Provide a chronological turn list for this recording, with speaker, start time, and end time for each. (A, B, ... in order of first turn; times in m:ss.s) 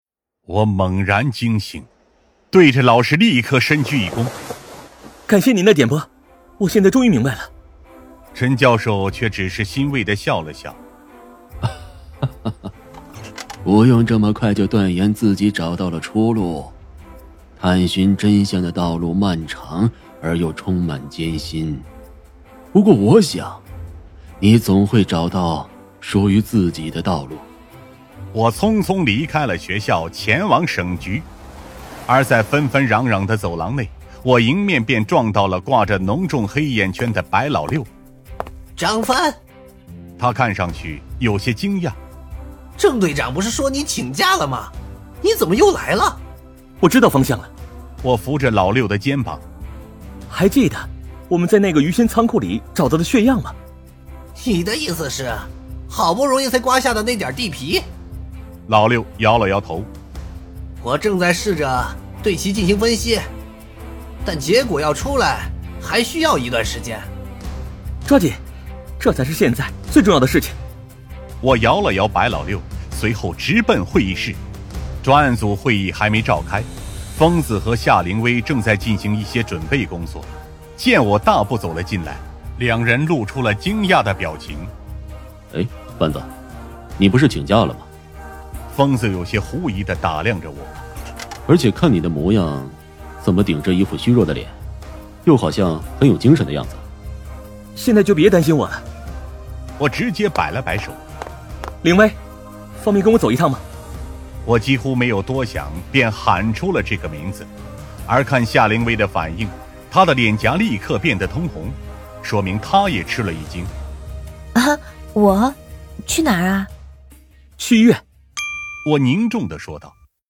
0:00.5-0:01.9 A
0:02.5-0:04.3 A
0:05.3-0:07.5 B
0:08.3-0:10.8 A
0:13.6-0:16.8 C
0:17.6-0:21.9 C
0:22.7-0:23.6 C
0:24.4-0:27.5 C
0:28.3-0:31.3 A
0:32.1-0:37.9 A
0:38.8-0:39.4 D
0:40.2-0:42.0 A
0:42.8-0:46.2 D
0:46.8-0:47.5 B
0:48.0-0:49.4 A
0:50.3-0:53.6 B
0:54.4-0:57.9 D
0:58.7-0:59.9 A
1:00.8-1:03.3 D
1:04.2-1:07.1 D
1:08.1-1:08.4 B
1:09.0-1:10.6 B
1:11.4-1:14.4 A
1:15.0-1:24.7 A
1:25.5-1:26.3 C
1:27.0-1:27.9 C
1:28.7-1:30.7 A
1:31.5-1:34.6 C
1:35.2-1:36.8 C
1:37.8-1:38.8 B
1:39.8-1:41.0 A
1:41.8-1:42.2 B
1:42.8-1:43.6 B
1:44.4-1:47.5 A
1:48.1-1:53.7 A
1:54.6-1:56.7 E
1:57.6-1:58.0 B
1:58.8-2:00.0 A